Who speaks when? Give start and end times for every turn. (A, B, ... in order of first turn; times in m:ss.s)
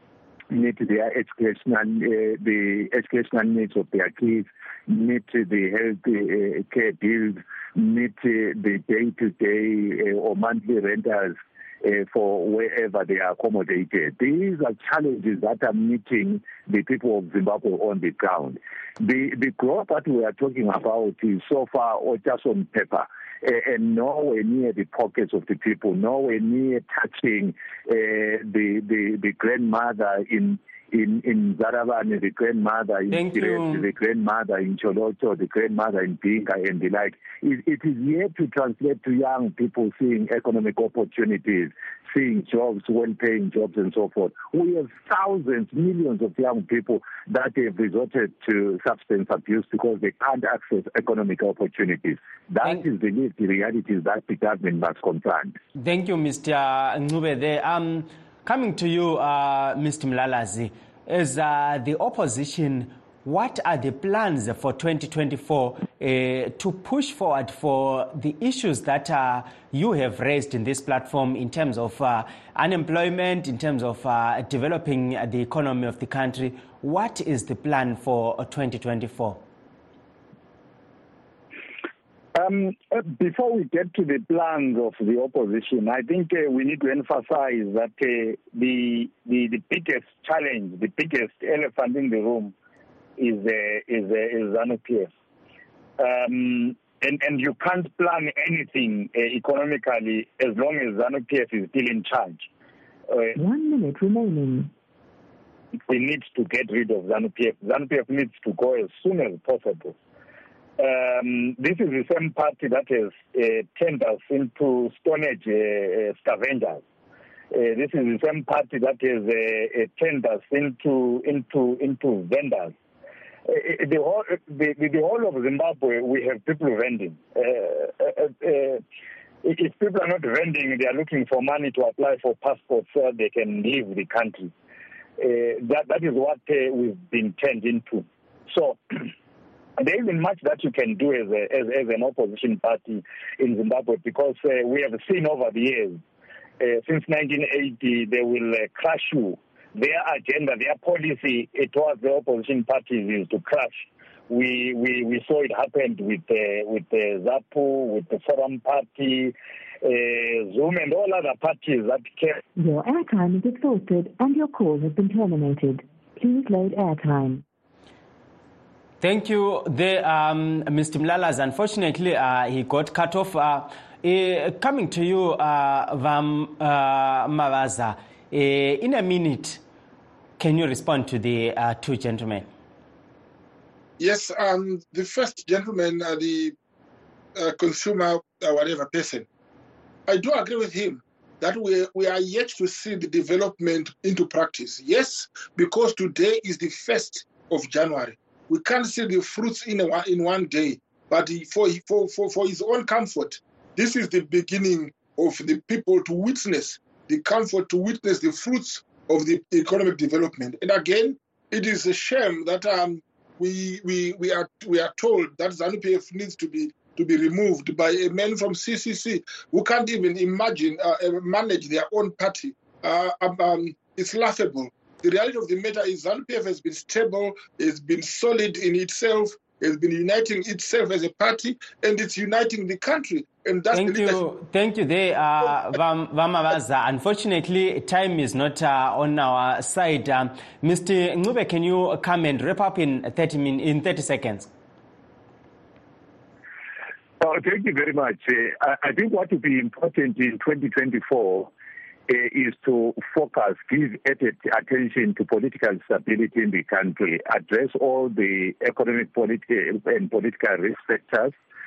0:00.5-0:55.6 A
0:33.1-0:33.9 B
0:55.7-1:19.4 B
1:22.4-1:32.5 C
1:33.2-1:35.1 C
1:36.0-1:42.5 C
1:43.1-1:43.4 C
1:43.4-1:44.7 D
1:45.9-1:49.9 C
1:50.8-1:56.8 C
1:57.5-2:02.7 C
2:03.4-2:08.8 C
2:09.4-2:14.5 C
2:15.2-2:19.1 C
2:19.8-2:26.0 C
2:26.6-2:42.4 C
2:42.6-2:47.4 D
2:49.0-2:59.6 B
3:00.4-3:02.5 B
3:04.0-3:06.5 E
3:07.4-3:09.2 E
3:10.1-3:54.2 E
3:53.7-4:04.5 B
4:07.2-4:11.5 A
4:12.1-4:21.3 A